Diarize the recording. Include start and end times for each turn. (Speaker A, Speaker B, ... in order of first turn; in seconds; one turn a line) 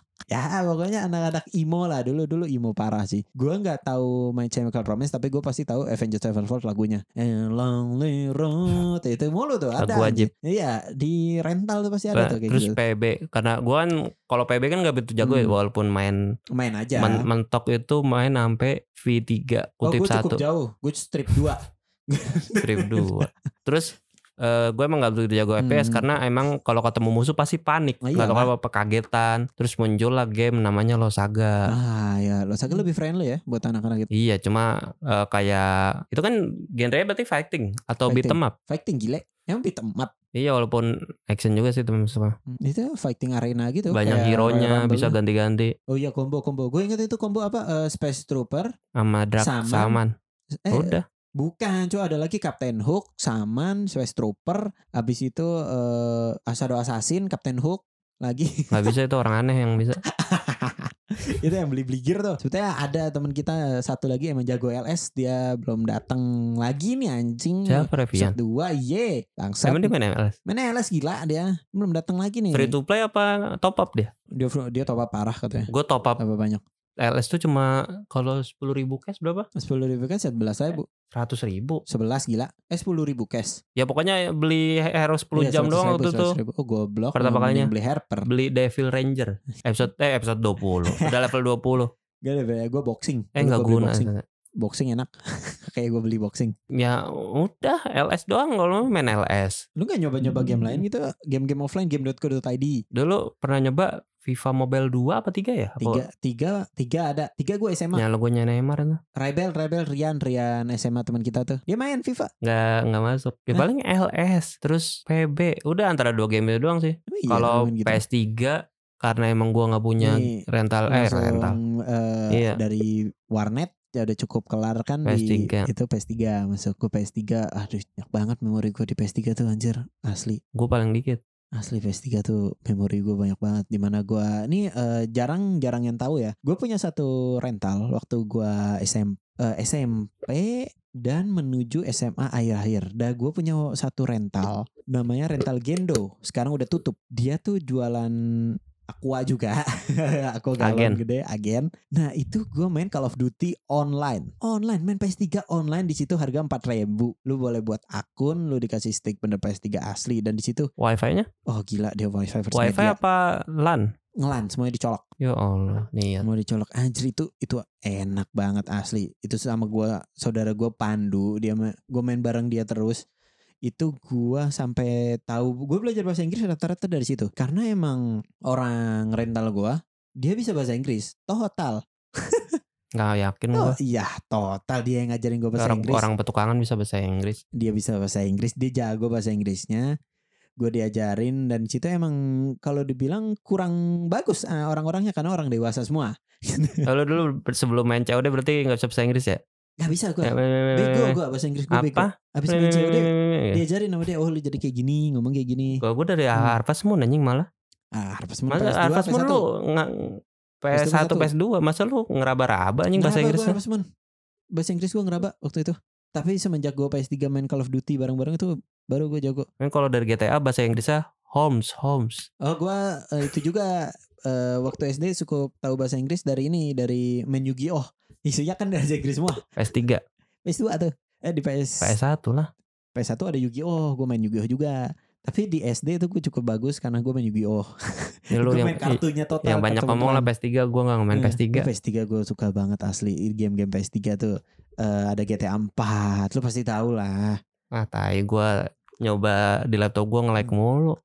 Speaker A: 0.3-12.8
Speaker B: 9.8-10.3
Speaker B: 12.1-16.2
Speaker A: 15.2-15.5
Speaker A: 16.5-17.2
Speaker B: 17.0-20.4
Speaker A: 19.8-23.3
Speaker B: 22.6-31.7
Speaker A: 25.6-26.1
Speaker A: 28.0-28.5
Speaker A: 31.7-34.1
Speaker B: 34.1-38.5
Speaker A: 38.1-40.1
Speaker B: 40.3-42.4
Speaker A: 42.6-45.1
Speaker B: 43.9-45.7
Speaker A: 45.9-48.7
Speaker B: 49.0-50.1
Speaker A: 49.4-50.0
Speaker A: 50.6-58.9
Speaker B: 50.7-51.0
Speaker B: 58.7-60.0
Speaker A: 60.1-69.9
Speaker B: 67.7-68.4
Speaker B: 69.6-70.4
Speaker A: 70.5-72.7
Speaker B: 72.5-74.1
Speaker A: 74.3-76.6
Speaker B: 75.7-76.2
Speaker B: 77.0-79.5
Speaker A: 79.5-80.8
Speaker B: 81.1-81.8
Speaker A: 81.9-83.6
Speaker B: 83.8-86.4
Speaker A: 85.3-88.3
Speaker B: 87.1-87.7
Speaker B: 88.2-91.9
Speaker A: 90.8-91.2
Speaker A: 92.2-96.5
Speaker B: 93.3-94.2
Speaker B: 96.7-99.6
Speaker A: 99.8-102.8
Speaker B: 100.2-100.8
Speaker B: 102.9-106.0
Speaker A: 105.8-108.0
Speaker B: 107.9-109.0
Speaker A: 109.2-112.3
Speaker B: 112.4-121.6
Speaker A: 117.1-118.0
Speaker A: 120.0-130.4
Speaker B: 122.3-122.6
Speaker B: 125.0-125.7
Speaker B: 130.5-131.2
Speaker A: 131.5-160.7
Speaker B: 150.6-151.0
Speaker B: 160.8-161.3
Speaker A: 161.5-163.0
Speaker B: 162.5-163.9
Speaker A: 164.2-165.0
Speaker B: 165.2-166.2
Speaker A: 166.2-173.0
Speaker A: 173.7-182.6
Speaker B: 183.0-183.8
Speaker A: 183.5-186.1
Speaker B: 185.6-187.4
Speaker A: 187.5-189.9
Speaker A: 190.6-196.9
Speaker B: 196.8-199.4
Speaker A: 199.8-205.8
Speaker B: 200.2-201.2
Speaker B: 201.7-203.6
Speaker B: 205.8-207.5
Speaker A: 207.9-209.4
Speaker B: 208.5-210.0
Speaker B: 210.6-213.6
Speaker A: 210.7-211.3
Speaker A: 212.9-213.8
Speaker A: 214.6-219.5
Speaker B: 219.6-222.3
Speaker A: 222.4-229.4
Speaker B: 229.6-230.0
Speaker A: 230.4-231.9
Speaker B: 231.8-232.5
Speaker A: 232.9-237.7
Speaker A: 238.3-240.3
Speaker B: 238.3-241.7
Speaker A: 241.1-247.4
Speaker B: 247.7-248.5
Speaker B: 249.0-251.0